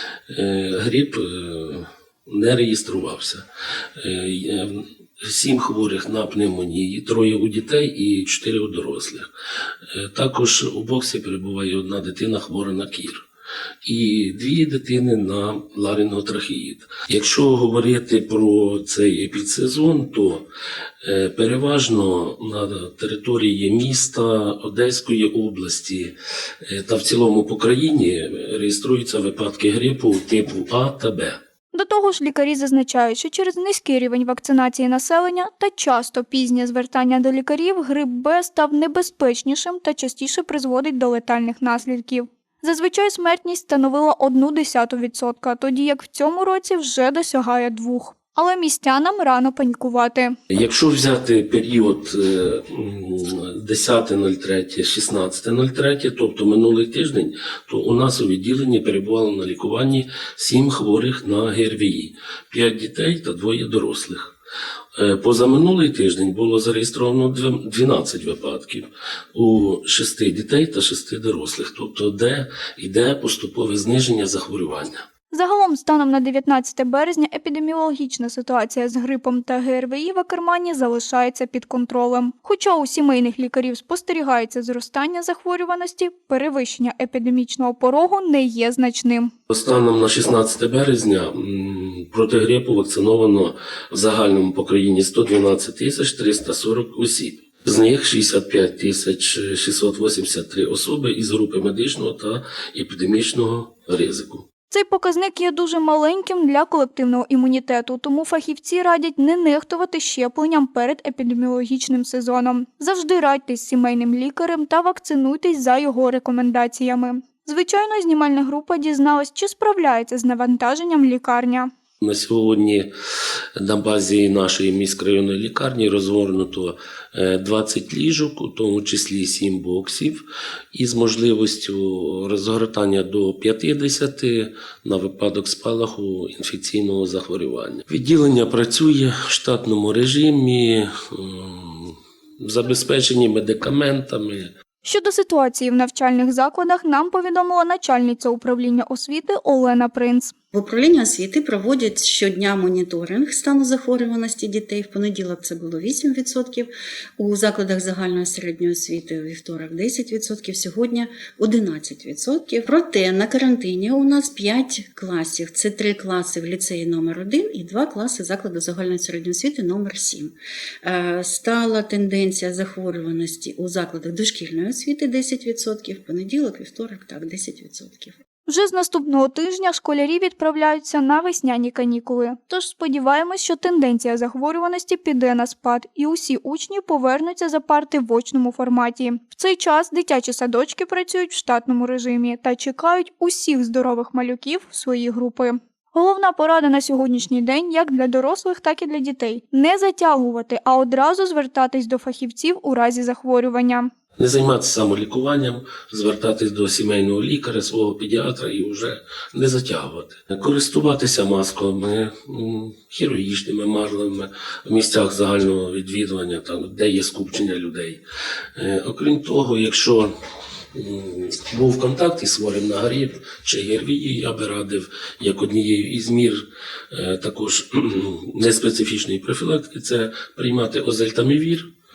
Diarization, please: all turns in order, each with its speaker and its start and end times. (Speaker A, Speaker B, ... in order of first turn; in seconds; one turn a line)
Speaker A: 0.3-3.5
Speaker A: 4.0-9.3
Speaker A: 9.9-13.2
Speaker A: 13.8-20.5
Speaker A: 21.0-31.4
Speaker B: 31.7-50.3
Speaker A: 50.5-64.3
Speaker A: 65.0-75.0
Speaker B: 75.3-89.3
Speaker A: 89.5-104.5
Speaker B: 104.7-121.7
Speaker A: 122.0-122.9
Speaker A: 123.6-130.2
Speaker A: 130.7-144.5
Speaker B: 144.8-150.3
Speaker C: 150.5-170.3
Speaker C: 170.8-178.2
Speaker B: 178.5-203.9
Speaker A: 204.2-218.0
Speaker A: 218.6-220.1
Speaker A: 220.7-231.7